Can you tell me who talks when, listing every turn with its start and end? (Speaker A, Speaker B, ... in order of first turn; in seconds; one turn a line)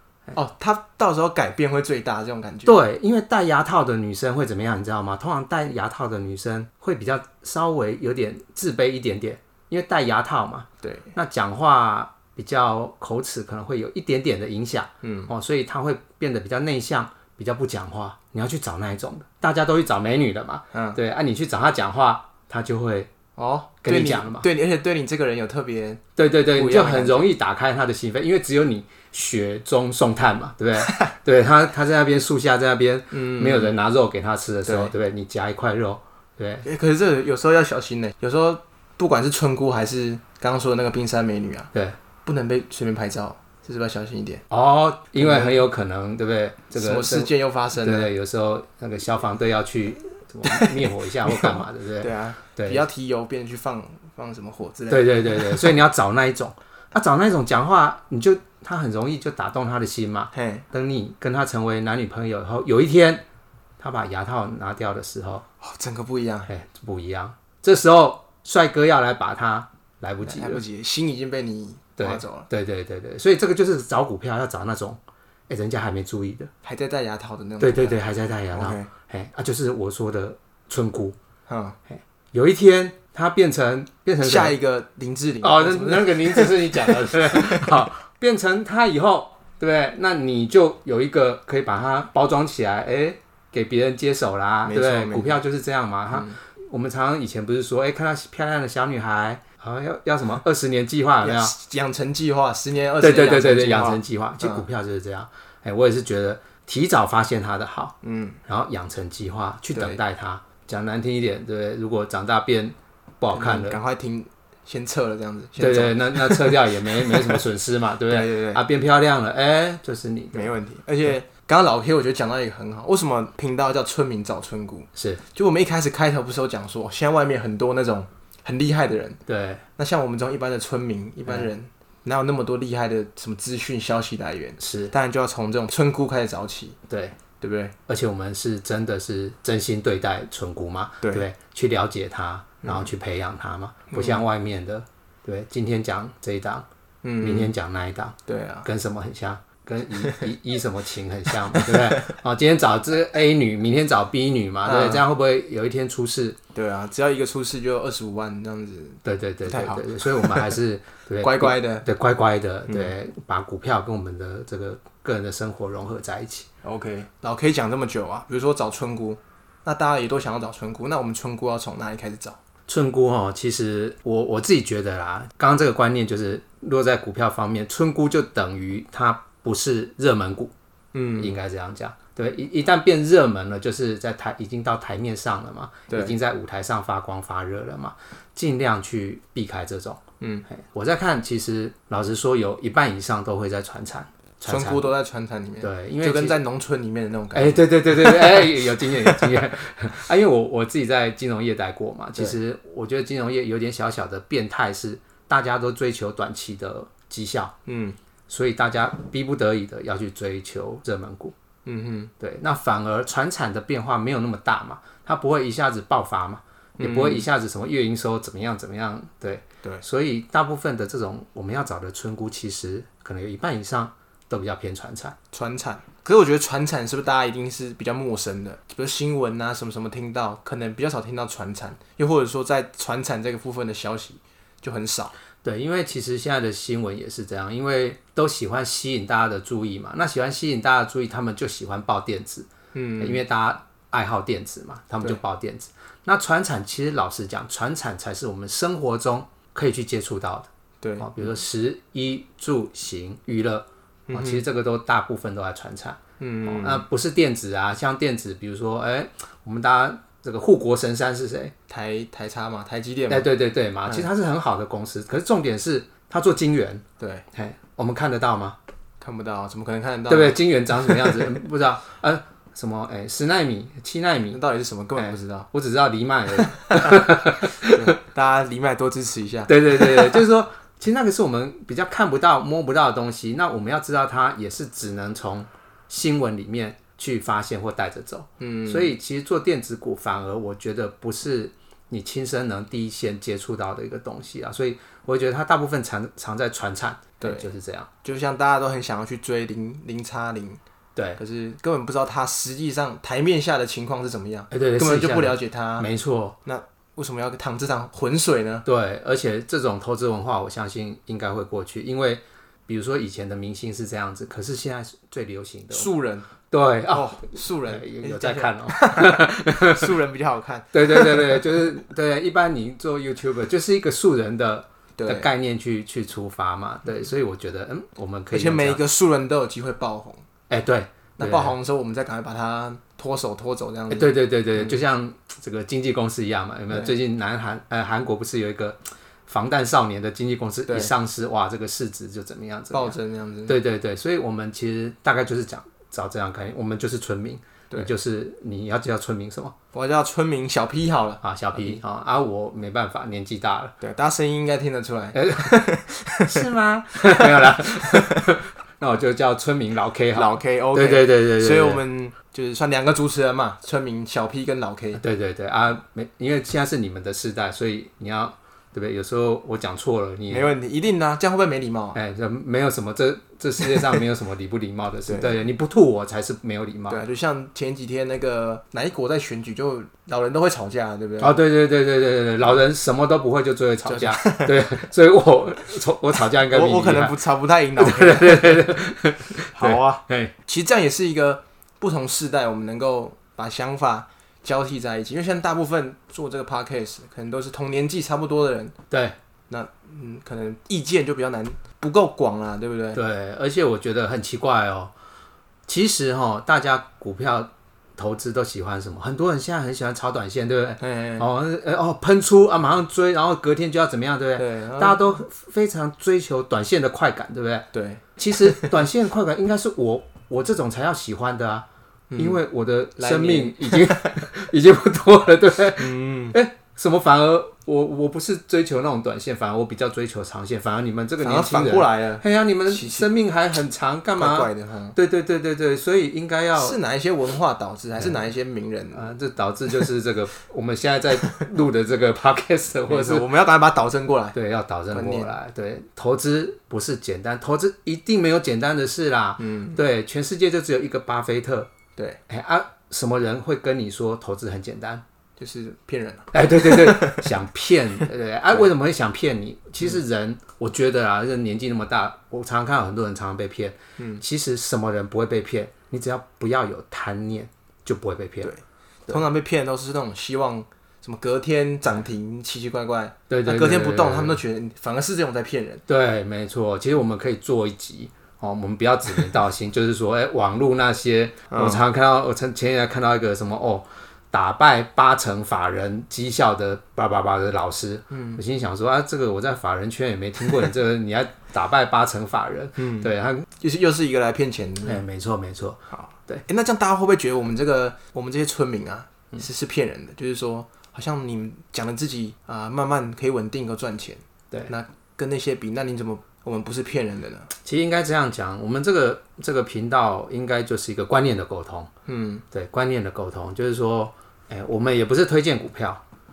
Speaker A: 0.3-2.8
Speaker B: 2.6-23.1
Speaker A: 10.8-11.1
Speaker A: 15.0-15.3
Speaker A: 20.7-21.0
Speaker A: 23.4-27.3
Speaker B: 23.8-24.5
Speaker B: 26.2-36.7
Speaker A: 33.1-33.8
Speaker A: 34.7-34.9
Speaker A: 36.6-41.7
Speaker A: 42.2-44.4
Speaker B: 44.5-52.8
Speaker A: 45.2-45.6
Speaker A: 46.7-48.1
Speaker A: 50.4-55.8
Speaker B: 54.9-63.2
Speaker A: 60.3-60.6
Speaker B: 63.8-65.4
Speaker A: 65.6-66.5
Speaker B: 66.5-70.6
Speaker A: 70.2-72.5
Speaker B: 72.0-76.5
Speaker A: 76.6-78.0
Speaker B: 77.6-81.2
Speaker A: 78.5-78.9
Speaker A: 81.5-81.8
Speaker B: 81.9-84.5
Speaker A: 84.2-87.7
Speaker B: 85.4-101.5
Speaker A: 94.6-95.4
Speaker A: 101.2-104.6
Speaker B: 103.0-107.9
Speaker A: 108.0-108.4
Speaker B: 108.5-113.8
Speaker A: 109.7-110.0
Speaker A: 113.3-117.4
Speaker B: 115.6-120.5
Speaker A: 118.1-118.6
Speaker A: 120.3-129.2
Speaker B: 125.0-125.2
Speaker B: 129.2-129.6
Speaker A: 129.8-136.8
Speaker B: 134.6-134.9
Speaker B: 136.9-137.2
Speaker A: 137.4-137.8
Speaker B: 137.9-146.7
Speaker A: 142.6-142.9
Speaker A: 143.9-144.2
Speaker A: 147.0-147.5
Speaker B: 147.2-156.4
Speaker A: 148.3-148.7
Speaker A: 151.5-152.1
Speaker A: 154.6-155.1
Speaker A: 156.5-160.6
Speaker B: 159.0-166.5
Speaker A: 161.2-161.9
Speaker A: 162.7-162.9
Speaker A: 166.6-172.4
Speaker B: 172.7-180.5
Speaker A: 180.9-181.3
Speaker B: 181.2-194.9
Speaker A: 185.9-186.2
Speaker A: 190.2-190.4
Speaker A: 194.4-199.3
Speaker B: 195.6-196.4
Speaker B: 197.3-207.5
Speaker A: 207.7-208.0
Speaker B: 208.3-211.3
Speaker A: 211.6-212.1
Speaker B: 212.2-225.2
Speaker A: 216.8-217.3
Speaker A: 225.3-235.1
Speaker B: 235.4-242.5
Speaker A: 242.7-243.2
Speaker B: 243.0-261.5
Speaker A: 250.8-251.1
Speaker A: 254.1-254.4
Speaker A: 256.2-256.9
Speaker A: 261.7-263.3
Speaker B: 263.1-268.6
Speaker A: 267.0-267.2
Speaker A: 269.0-271.2
Speaker B: 270.1-274.4
Speaker A: 274.3-275.5
Speaker B: 274.9-277.8
Speaker A: 276.6-280.2
Speaker B: 279.5-297.9
Speaker A: 288.4-288.9
Speaker A: 297.2-297.5
Speaker A: 298.0-300.6
Speaker A: 301.1-305.9
Speaker B: 304.5-306.4
Speaker A: 306.4-308.6
Speaker B: 308.6-315.9
Speaker A: 315.7-316.3
Speaker B: 316.5-319.9
Speaker A: 316.9-321.6
Speaker B: 320.7-328.8
Speaker A: 325.0-325.3
Speaker A: 328.3-330.2
Speaker B: 330.5-331.6
Speaker A: 331.2-334.8
Speaker B: 333.9-349.6
Speaker A: 342.7-343.6
Speaker A: 349.7-351.8
Speaker B: 351.2-353.8
Speaker A: 353.8-356.4
Speaker B: 355.1-355.7
Speaker B: 356.2-361.8
Speaker A: 357.0-357.9
Speaker A: 360.1-365.0
Speaker B: 364.9-370.5
Speaker A: 370.3-372.0
Speaker B: 371.9-377.0
Speaker A: 373.6-373.9
Speaker A: 375.1-375.4
Speaker A: 376.9-381.4
Speaker B: 381.2-387.2
Speaker A: 383.9-384.6
Speaker A: 386.4-388.7
Speaker B: 387.8-390.3
Speaker A: 389.5-398.7
Speaker B: 398.9-399.2
Speaker A: 399.5-403.0
Speaker B: 402.9-404.9
Speaker B: 405.7-417.7
Speaker A: 410.8-411.2
Speaker A: 414.4-415.2
Speaker A: 417.7-418.8
Speaker B: 418.2-436.8
Speaker A: 422.1-422.4
Speaker A: 423.0-424.0
Speaker A: 425.8-426.4
Speaker A: 431.2-433.1
Speaker A: 434.2-434.9
Speaker A: 436.6-439.1
Speaker B: 438.9-443.2
Speaker A: 442.9-444.4
Speaker B: 444.3-451.7
Speaker A: 444.9-445.3
Speaker A: 449.4-449.8
Speaker B: 452.3-455.0
Speaker A: 455.4-457.3
Speaker B: 456.3-468.5
Speaker A: 464.0-464.2
Speaker A: 468.4-475.8
Speaker B: 473.3-474.4
Speaker B: 475.9-493.5
Speaker A: 481.5-481.8
Speaker A: 488.1-488.4
Speaker A: 492.8-495.0
Speaker B: 494.8-496.4
Speaker A: 495.9-507.5
Speaker B: 507.6-511.9
Speaker A: 512.1-512.4
Speaker B: 512.5-516.0